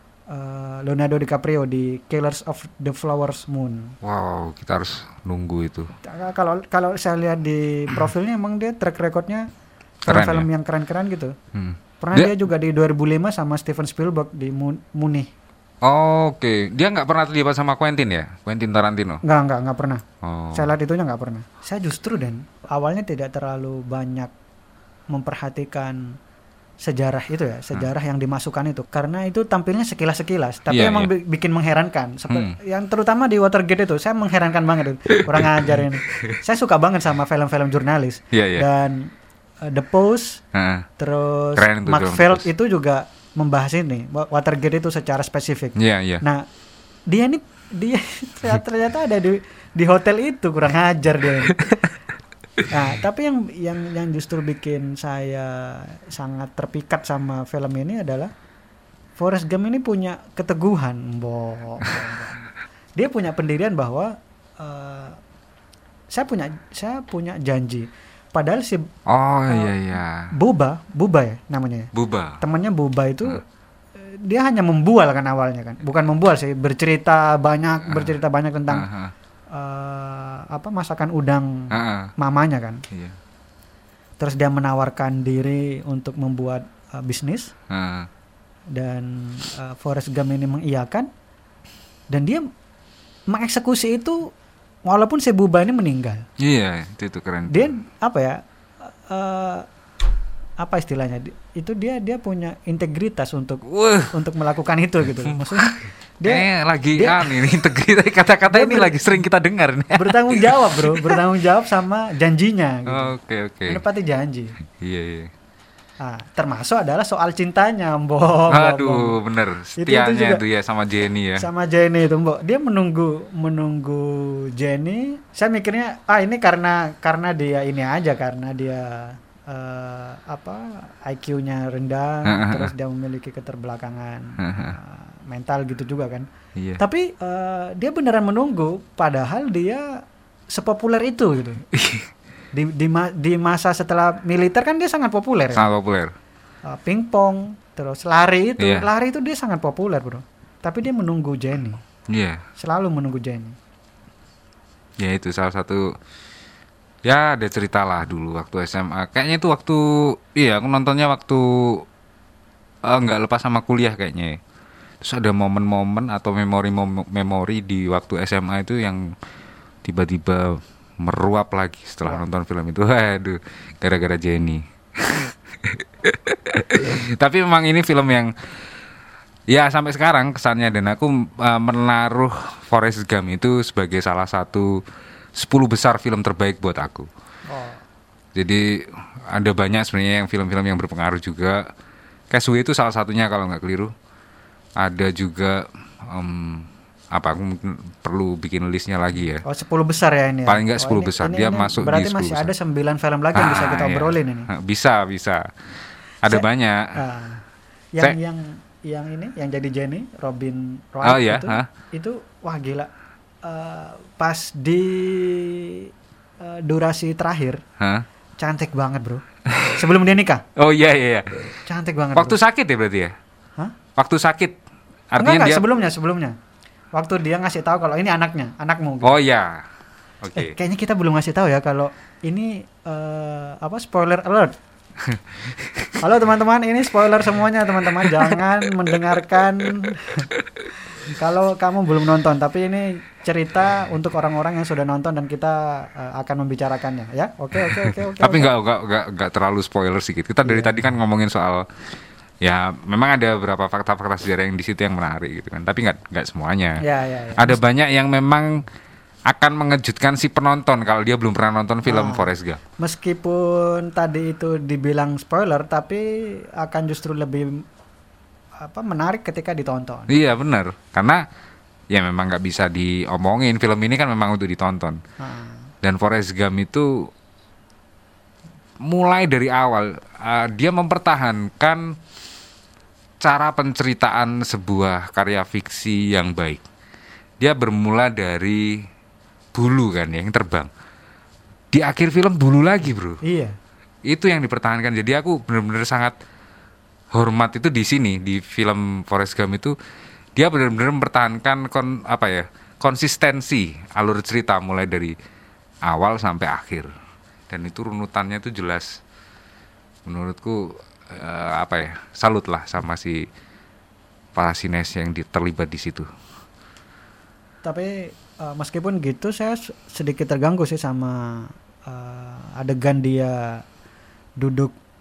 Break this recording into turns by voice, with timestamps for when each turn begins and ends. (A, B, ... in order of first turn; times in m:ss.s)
0:00.3-0:04.0 A
0:04.0-0:05.9 B
0:06.0-0:09.5 A
0:10.1-0:11.4 A
0:10.1-0:10.5 B
0:11.5-0:12.3 B
0:12.0-0:15.3 A
0:15.8-0:19.2 B
0:19.2-0:24.3 A
0:20.2-0:20.7 B
0:25.1-0:26.2 A
0:26.8-0:40.4 A
0:30.7-0:31.1 B
0:32.3-0:32.6 B
0:35.1-0:36.4 B
0:38.3-0:38.6 B
0:40.5-0:40.9 B
0:41.0-0:46.4 A
0:41.6-0:42.5 B
0:45.8-0:46.2 B
0:47.1-0:51.6 A
0:51.5-0:51.9 B
0:52.7-0:58.3 A
0:59.2-1:02.4 A
1:03.0-1:05.2 A
1:06.1-1:08.9 A
1:09.1-1:10.3 B
1:10.3-1:13.4 A
1:11.9-1:12.4 B
1:14.0-1:18.9 A
1:17.9-1:18.1 B
1:18.7-1:19.1 B
1:19.5-1:22.8 A
1:21.7-1:22.1 B
1:22.9-1:23.2 B
1:24.2-1:27.5 A
1:27.7-1:28.1 B
1:28.7-1:31.1 A
1:32.1-1:32.5 A
1:33.3-1:34.3 A
1:34.9-1:36.2 A
1:36.4-1:37.7 B
1:37.5-1:39.6 A
1:40.6-1:47.4 A
1:43.7-1:44.1 B
1:45.2-1:51.2 B
1:48.5-1:48.9 A
1:49.9-1:53.1 A
1:52.9-1:53.8 B
1:53.7-1:54.6 A
1:54.8-1:55.3 B
1:56.0-1:59.2 A
1:58.5-2:01.5 B
1:59.8-2:00.4 A
2:01.4-2:16.3 A
2:12.2-2:12.7 B
2:14.4-2:14.8 B
2:16.6-2:16.8 B
2:16.8-2:21.6 A
2:21.7-2:22.1 B
2:22.5-2:25.7 A
2:25.5-2:26.1 B
2:26.7-2:31.8 A
2:28.6-2:28.9 B
2:32.1-2:32.4 B
2:32.6-2:33.6 A
2:35.0-2:35.9 B
2:37.0-2:41.8 B
2:42.8-2:44.4 B
2:45.0-2:49.1 B
2:49.8-2:58.3 B
2:59.5-3:04.8 B
3:05.4-3:07.1 B
3:07.5-3:07.8 A
3:08.4-3:11.6 B
3:12.3-3:13.9 B
3:14.8-3:19.4 B
3:19.4-3:24.5 A
3:20.5-3:22.5 B
3:23.4-3:25.5 B
3:26.2-3:27.0 B
3:26.3-3:27.4 A
3:27.9-3:32.9 A
3:31.0-3:31.7 B
3:33.4-3:35.9 A
3:36.4-3:37.6 A
3:37.8-3:38.1 B
3:38.4-3:39.2 A
3:39.8-3:40.4 A
3:40.6-3:41.5 B
3:41.6-3:42.4 A
3:42.1-3:43.1 B
3:44.0-3:44.6 B
3:45.1-3:45.6 B
3:45.2-3:46.4 A
3:47.0-3:49.2 A
3:49.0-3:49.6 B
3:50.2-3:50.6 B
3:50.4-3:54.5 A
3:55.0-3:56.0 B
3:56.0-4:00.3 A
3:57.8-3:58.4 B
4:00.3-4:00.6 B
4:01.0-4:08.5 A
4:07.6-4:11.7 B
4:10.4-4:10.9 A
4:12.4-4:16.8 B
4:16.8-4:17.6 A
4:17.4-4:18.6 B
4:19.3-4:22.6 B
4:21.8-4:27.6 A
4:28.6-4:30.1 A
4:30.1-4:31.3 B
4:31.9-4:35.0 B
4:35.2-4:35.7 A
4:35.8-4:37.1 B
4:38.8-4:42.0 B
4:43.2-4:46.6 B
4:47.4-4:48.9 B
4:49.5-4:50.7 B
4:51.7-4:53.2 B
4:53.2-4:53.5 A
4:54.1-4:56.1 B
4:57.1-4:59.8 B
5:00.4-5:05.1 B
5:05.8-5:06.9 B
5:07.5-5:09.0 B
5:10.1-5:13.3 B
5:14.4-5:16.1 B
5:17.6-5:23.6 A
5:24.4-5:24.7 A